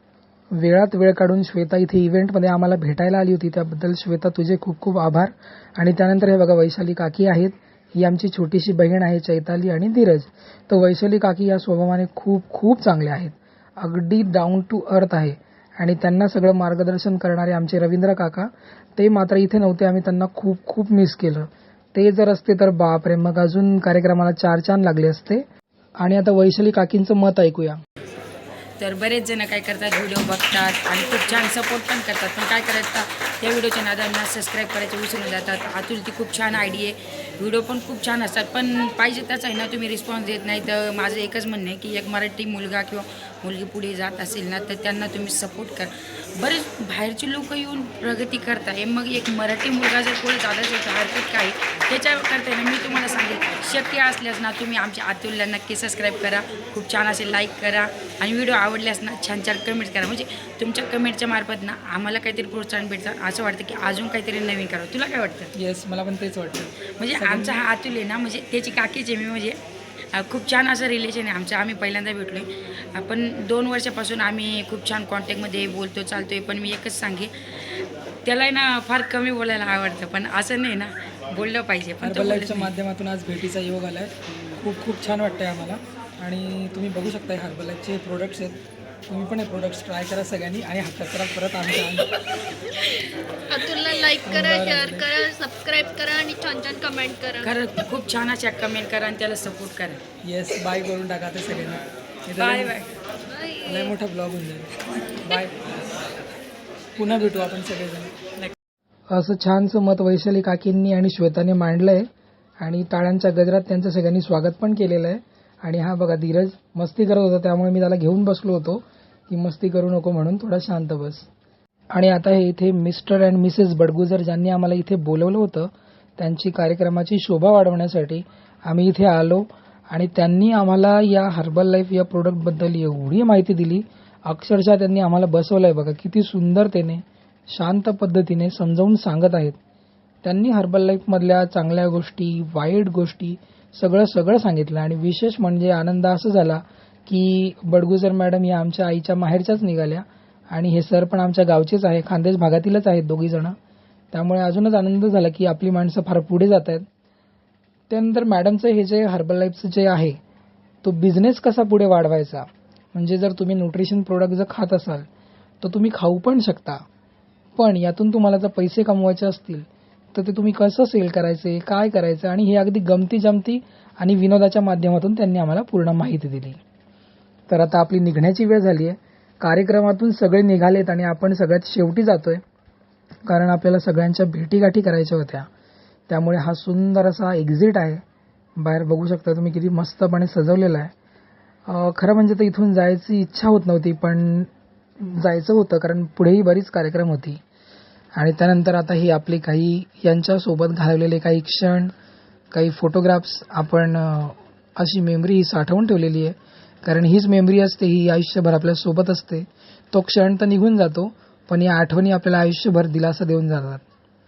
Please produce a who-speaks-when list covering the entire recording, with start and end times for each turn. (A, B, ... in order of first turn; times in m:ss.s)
0:00.5-0:25.4 A
0:26.0-0:27.8 A
0:28.8-1:05.5 B
1:05.6-1:07.6 A
1:07.0-1:09.6 B
1:10.1-1:22.7 B
1:22.0-1:32.2 A
1:32.7-1:33.1 B
1:33.5-1:37.5 C
1:34.2-1:35.2 A
1:37.4-1:40.0 B
1:40.2-1:42.8 A
1:42.4-1:42.9 B
1:43.3-1:43.9 C
1:43.6-1:45.6 A
1:47.0-1:48.1 A
1:49.1-1:52.1 A
1:52.6-2:01.3 A
2:01.9-2:19.6 A
2:20.2-2:33.6 A
2:34.1-2:36.9 A
2:37.9-2:40.2 A
2:40.8-2:45.1 A
2:45.6-2:46.8 A
2:47.6-2:56.6 A
2:57.5-3:02.4 A
3:03.3-3:05.5 A
3:06.1-3:08.0 A
3:08.6-3:10.9 A
3:11.7-3:17.4 A
3:18.2-3:21.9 A
3:22.5-3:33.8 A